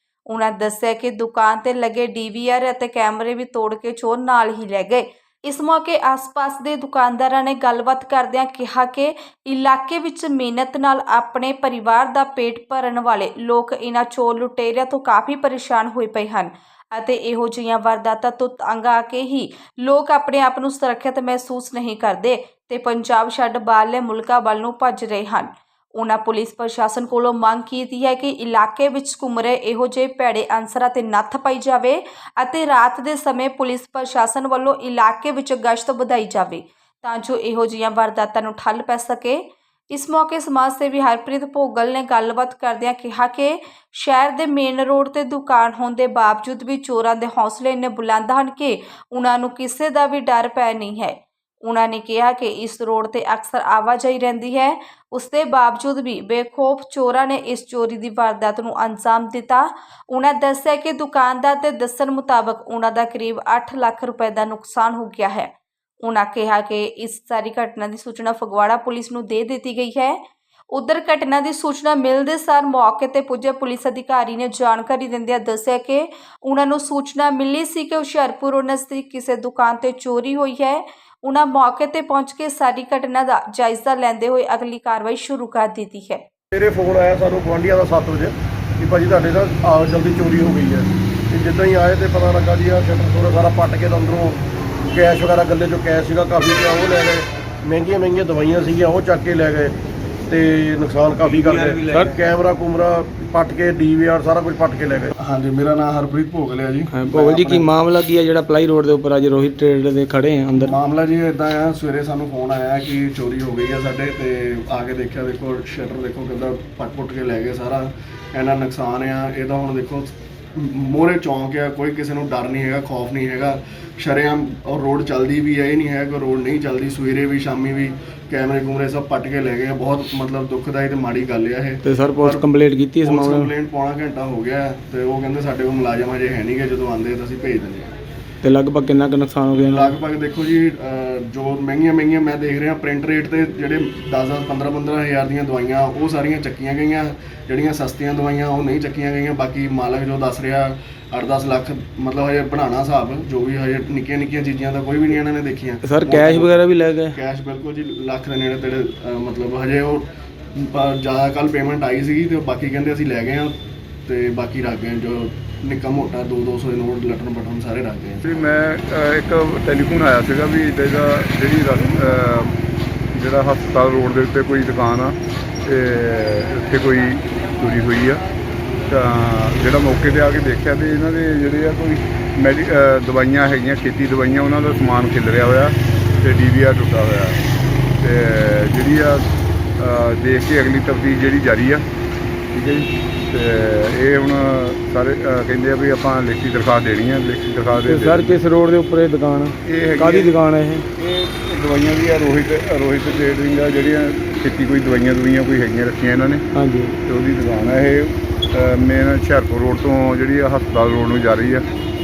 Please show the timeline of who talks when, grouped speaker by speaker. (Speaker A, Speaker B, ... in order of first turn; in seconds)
Speaker A: 0.3-65.5, 66.0-70.2, 70.7-86.2
Speaker B: 86.5-99.7, 100.3-105.1
Speaker C: 101.5-101.9, 105.2-107.7, 110.5-132.4, 133.0-137.9, 139.6-156.5, 157.1-163.5, 164.1-168.2
Speaker D: 101.9-102.1, 106.9-110.7, 131.8-133.5, 138.4-140.0, 155.8-157.2, 197.8-200.8, 206.5-206.9
Speaker E: 168.2-172.5, 173.1-178.2, 178.9-187.4, 188.0-189.2, 189.8-191.8, 192.5-198.4, 199.6-200.3, 201.0-206.4, 207.1-211.6